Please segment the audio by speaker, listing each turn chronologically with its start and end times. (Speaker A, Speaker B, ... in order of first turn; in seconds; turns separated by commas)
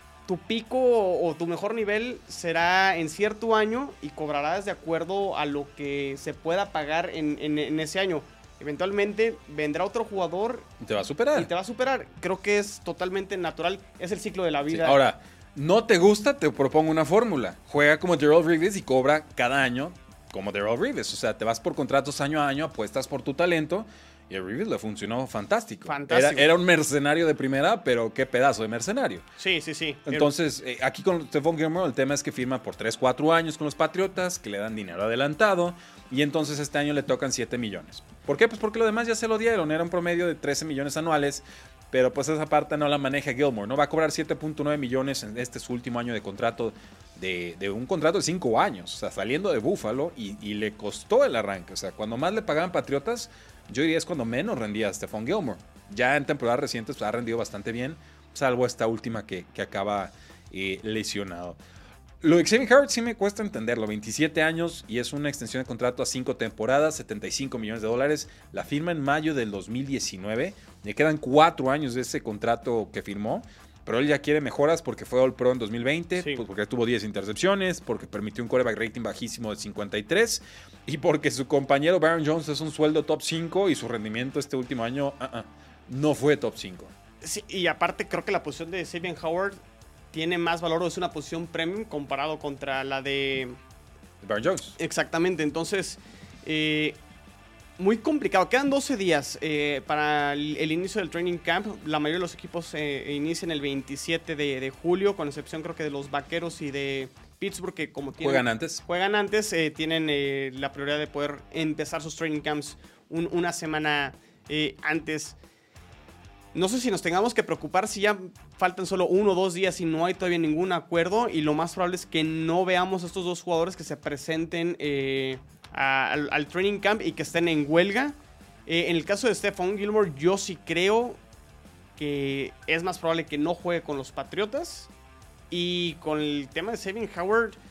Speaker A: 0.3-10.7, Speaker B: 10.8-11.5, Speaker A: 11.3-15.0, Speaker B: 14.7-29.2, Speaker A: 25.9-26.5, Speaker A: 29.4-30.3, Speaker B: 30.1-61.6, Speaker B: 62.2-86.9, Speaker A: 87.2-89.6, Speaker A: 90.1-93.6, Speaker B: 94.2-94.8, Speaker A: 94.8-97.0, Speaker A: 97.8-115.4, Speaker B: 108.2-108.8, Speaker A: 116.5-128.2, Speaker A: 128.7-131.2, Speaker A: 132.0-134.9, Speaker A: 135.5-137.6